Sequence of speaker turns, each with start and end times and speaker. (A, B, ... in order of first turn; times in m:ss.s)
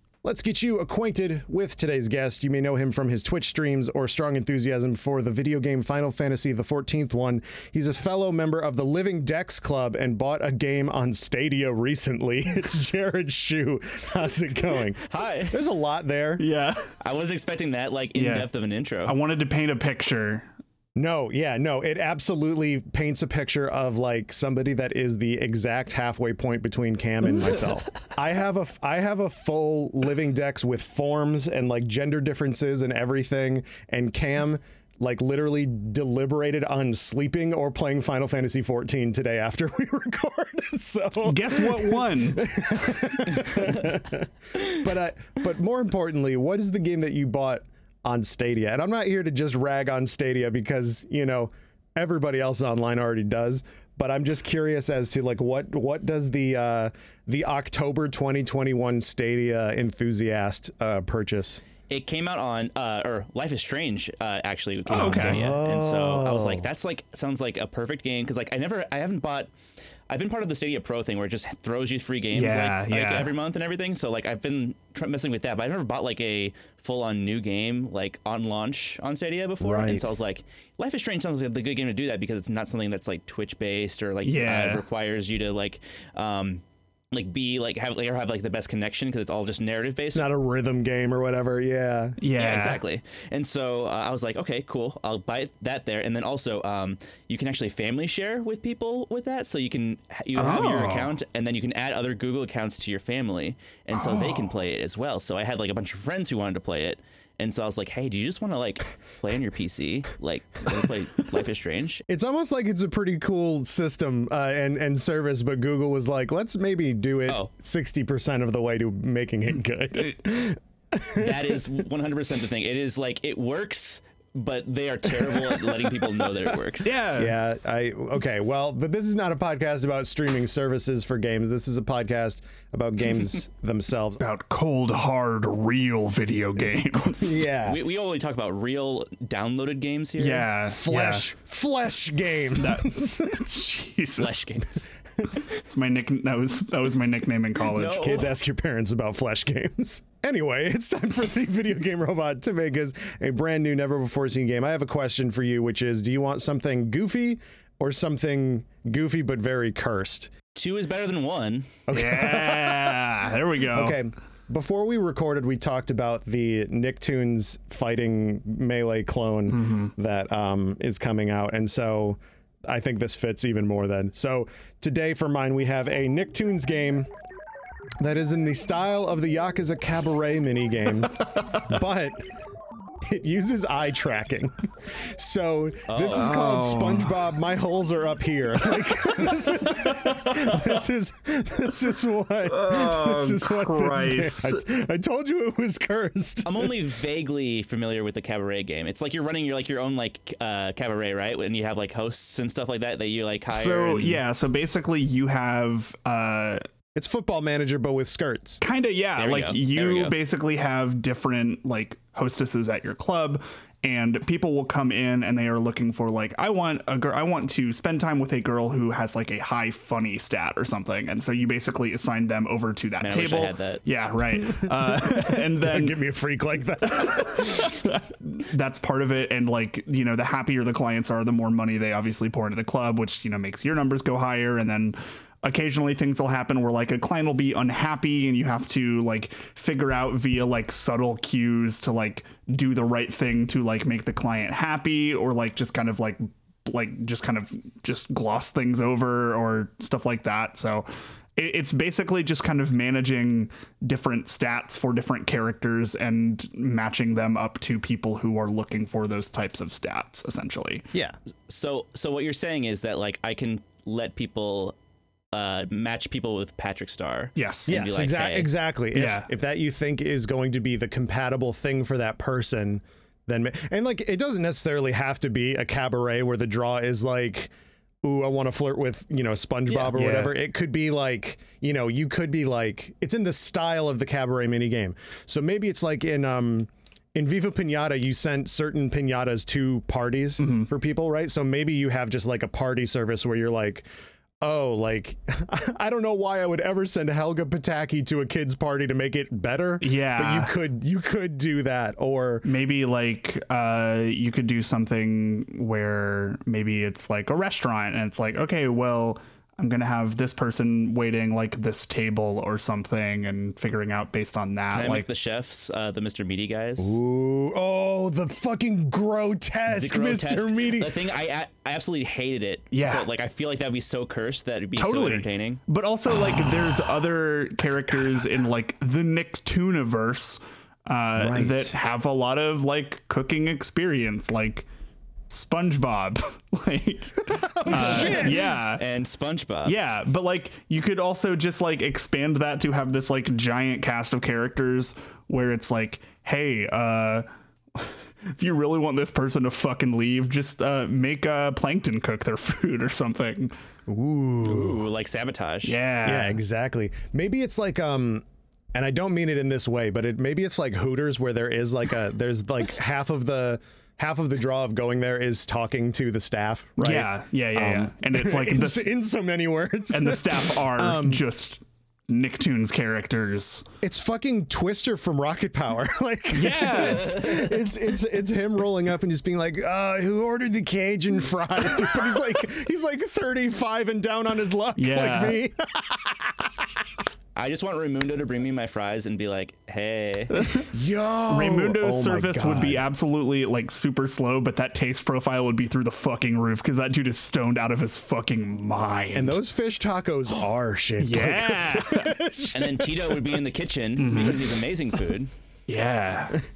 0:00.2-0:16.4 A
0:15.0-0:15.6 B
0:16.4-0:16.9 C
0:17.0-0:19.2 B
0:18.2-0:18.5 C
0:19.0-0:20.5 C
0:21.0-1:01.6 A
0:41.2-0:42.4 C
1:01.9-1:09.5 B
1:04.9-1:05.4 C
1:04.9-1:06.7 A
1:10.1-1:30.3 B
1:12.3-1:13.3 C
1:19.6-1:20.1 A
1:24.2-1:24.8 C
1:30.1-1:32.2 A
1:32.2-1:32.8 C
1:32.4-1:52.0 B
1:40.4-1:41.2 C
1:44.0-1:44.5 C
1:52.1-2:01.6 A
2:01.2-2:06.9 B
2:05.3-2:05.9 A
2:06.8-2:07.4 C
2:07.1-2:14.2 A
2:14.2-2:17.5 C
2:17.1-2:17.8 A
2:17.6-2:20.5 B
2:20.2-2:21.3 C
2:20.6-2:23.5 A
2:22.6-2:24.5 C
2:24.2-2:24.9 B
2:25.5-2:28.1 C
2:27.7-2:28.3 B
2:27.9-2:40.3 A
2:40.6-2:41.7 B
2:41.9-2:43.0 A
2:41.9-2:44.0 C
2:43.7-2:57.1 A
2:49.5-2:49.9 C
2:58.0-3:02.2 A
3:03.0-3:04.6 A
3:05.1-3:16.8 A
3:05.9-3:06.3 B
3:06.1-3:07.2 C
3:09.8-3:10.6 C
3:12.5-3:14.6 C
3:16.4-3:24.2 B
3:23.5-3:26.6 C
3:27.0-3:28.6 A
3:28.6-3:46.0 C
3:29.2-3:30.2 B
3:43.0-3:43.8 B
3:44.6-3:47.8 A
3:46.9-4:20.9 C
4:21.5-4:24.8 B
4:25.3-4:28.5 B
4:27.4-4:27.8 C
4:27.7-4:37.5 A
4:28.9-4:29.3 C
4:38.0-4:53.8 A
4:39.9-4:40.4 C
4:50.4-4:50.7 C
4:54.4-5:02.5 A
4:59.8-5:00.5 C
5:02.4-5:15.1 C
5:14.7-5:17.0 B
5:16.8-5:21.0 A
5:19.7-5:25.6 B
5:22.7-5:23.1 C
5:24.8-5:34.7 C
5:31.2-5:31.8 A
5:35.3-5:38.8 C
5:37.3-5:38.5 A
5:37.7-5:39.8 B
5:39.6-5:53.5 C
5:53.9-5:54.9 A
5:54.4-5:55.8 B
5:55.6-5:56.4 C
5:56.0-6:11.2 A
6:06.8-6:08.9 C
6:09.9-6:13.6 C
6:13.8-6:26.9 A
6:16.3-6:17.5 C
6:24.8-6:25.4 C
6:27.4-6:30.5 B
6:30.4-6:30.7 C
6:30.7-6:32.8 A
6:31.3-6:39.4 C
6:39.1-6:43.2 A
6:41.0-6:42.2 C
6:42.5-6:45.3 B
6:44.0-6:44.6 C
6:45.7-6:46.4 C